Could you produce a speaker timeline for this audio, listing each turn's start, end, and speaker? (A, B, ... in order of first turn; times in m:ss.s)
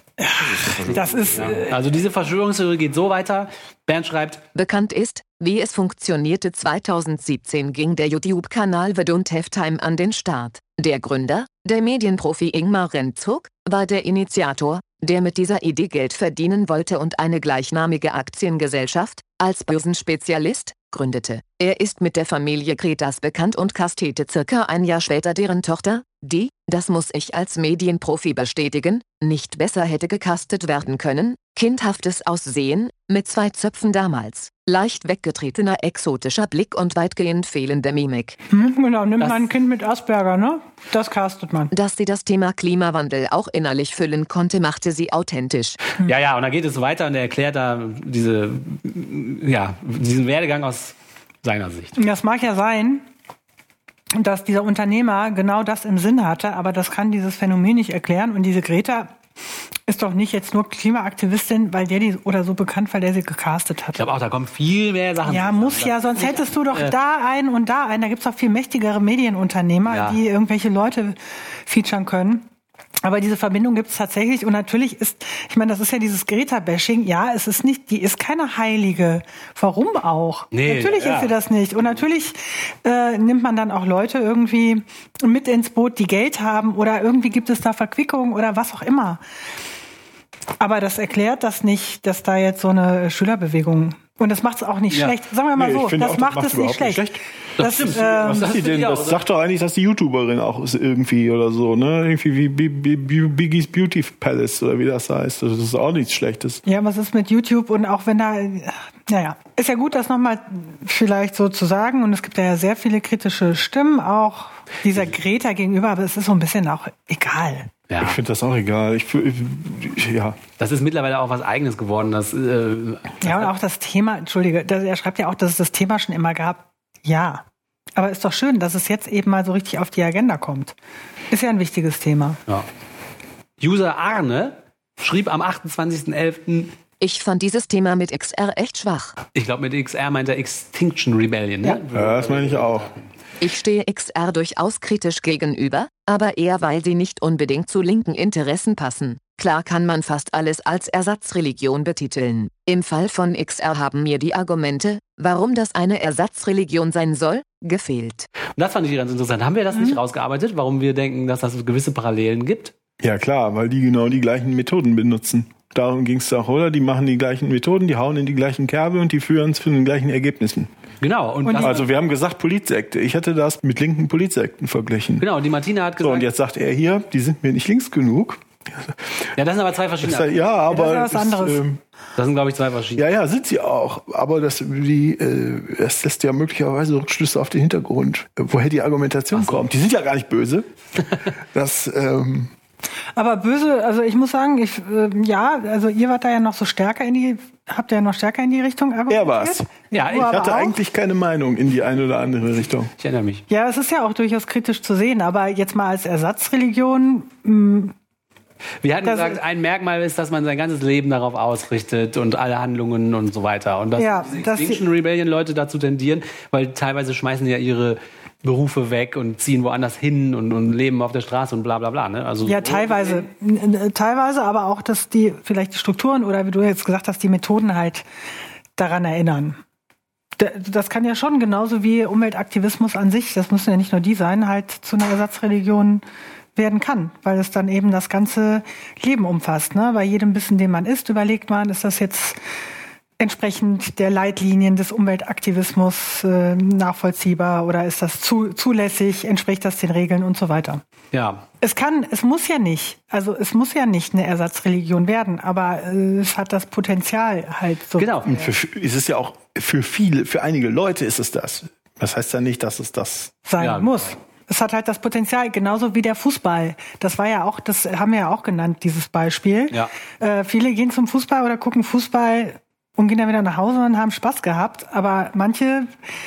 0:00.2-0:01.8 A
0:00.6-0:01.0 B
0:01.4-0:04.4 C
0:04.6-0:38.4 D
0:38.5-0:41.7 A
0:39.2-0:39.5 C
0:41.7-0:45.8 D
0:46.0-0:52.0 C
0:52.0-0:53.0 A
0:54.2-0:59.1 A
0:59.9-1:04.0 A
1:04.0-1:06.9 C
1:05.2-1:12.4 A
1:09.9-1:10.2 C
1:13.0-1:29.2 A
1:20.5-1:21.4 C
1:30.6-1:38.6 A
1:34.9-1:35.2 C
1:35.6-1:37.2 B
1:37.6-1:39.2 C
1:38.1-1:46.6 B
1:46.7-1:57.7 A
1:57.9-1:58.2 C
1:58.0-2:00.4 B
2:00.6-2:03.5 C
2:03.2-2:07.4 A
2:08.0-2:10.8 A
2:11.3-2:12.4 A
2:13.6-2:16.7 C
2:17.0-2:19.2 D
2:19.4-2:23.0 C
2:21.9-2:22.9 B
2:23.4-2:38.3 D
2:38.6-2:42.7 C
2:43.0-2:50.7 B
2:51.0-2:51.9 C
2:51.4-2:51.8 A
2:51.6-2:55.2 B
2:55.2-2:56.3 C
2:56.0-2:58.4 B
2:59.4-3:00.6 C
3:00.0-3:01.8 B
3:00.6-3:01.6 A
3:02.2-3:03.1 C
3:03.0-3:10.7 B
3:09.3-3:09.6 C
3:11.5-3:12.5 B
3:13.2-3:20.8 A
3:19.1-3:19.6 B
3:19.9-3:20.4 C
3:20.3-3:22.9 B
3:23.0-3:23.5 C
3:23.5-3:27.9 A
3:28.8-3:43.3 C
3:29.0-3:29.4 A
3:34.0-3:34.8 A
3:42.4-3:48.0 A
3:48.8-3:49.6 A
3:50.4-3:56.0 A
3:56.6-4:02.4 A
4:03.2-4:10.8 A
4:11.1-4:11.4 C
4:11.6-4:18.5 A
4:18.0-4:18.4 C
4:18.3-4:23.3 B
4:23.5-4:35.9 A
4:23.6-4:24.0 C